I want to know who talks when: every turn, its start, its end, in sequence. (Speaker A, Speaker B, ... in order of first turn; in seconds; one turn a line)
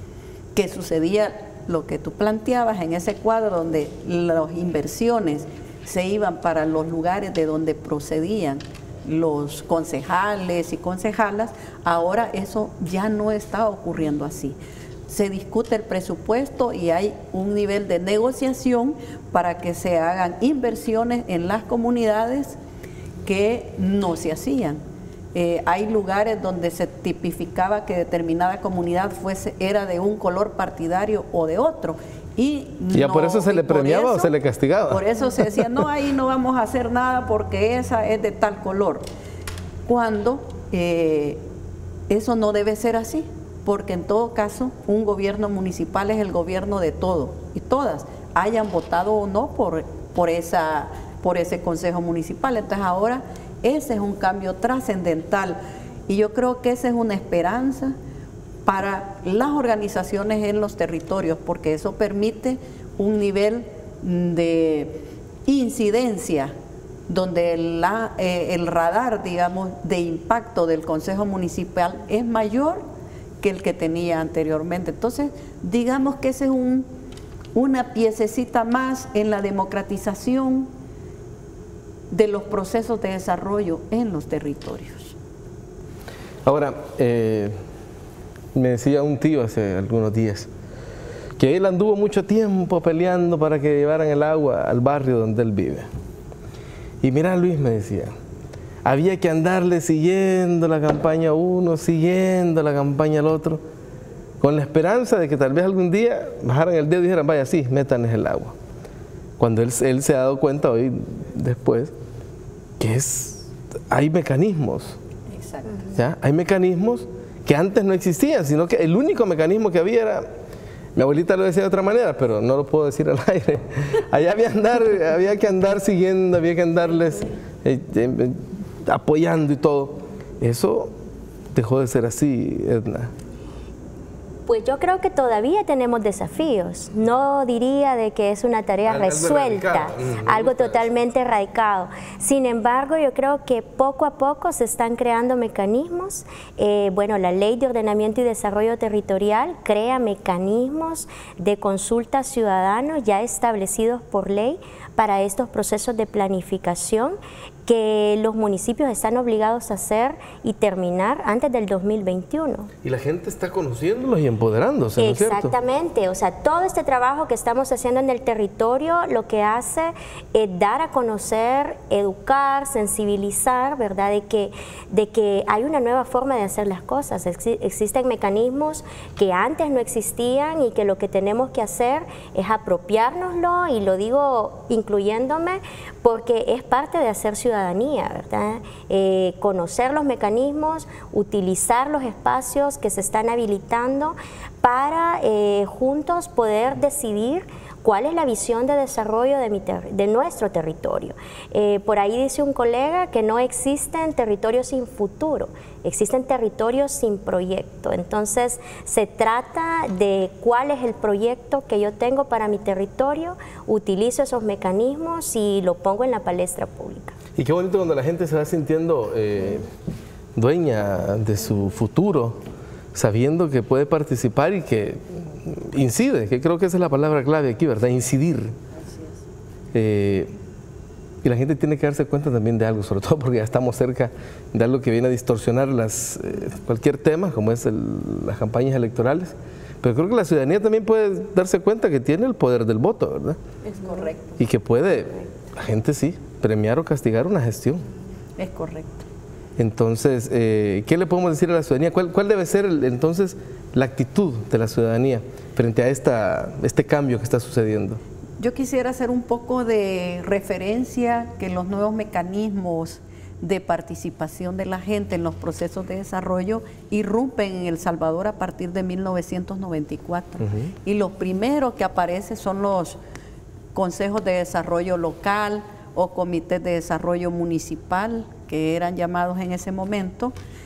Speaker A: 0.5-22.6
Speaker A: 23.2-24.8
Speaker A: 25.3-34.3
Speaker B: 32.9-35.7
Speaker A: 34.9-39.0
Speaker A: 39.9-41.4
Speaker A: 42.1-57.9
Speaker A: 58.6-66.5
Speaker A: 67.1-72.8
Speaker A: 73.4-76.9
Speaker A: 77.5-80.7
Speaker A: 82.1-85.2
Speaker B: 86.4-87.5
Speaker B: 88.5-90.5
Speaker B: 91.4-95.9
Speaker B: 97.0-98.1
Speaker B: 98.8-103.6
Speaker B: 104.4-108.5
Speaker B: 109.4-111.9
Speaker B: 112.8-115.0
Speaker A: 115.3-115.9
Speaker B: 115.9-120.3
Speaker B: 121.0-130.9
Speaker B: 131.5-133.1
Speaker C: 134.5-162.7
Speaker B: 138.8-140.9
Speaker B: 162.8-165.5
Speaker C: 165.0-217.2
Speaker B: 217.3-219.7
Speaker B: 220.3-222.4
Speaker B: 222.9-228.5
Speaker A: 228.8-229.2
Speaker B: 229.7-230.3
Speaker B: 231.2-243.4
Speaker A: 243.6-244.4
Speaker B: 244.4-247.8
Speaker A: 248.4-249.1
Speaker B: 249.6-258.0
Speaker A: 258.4-273.0
Speaker A: 273.7-280.3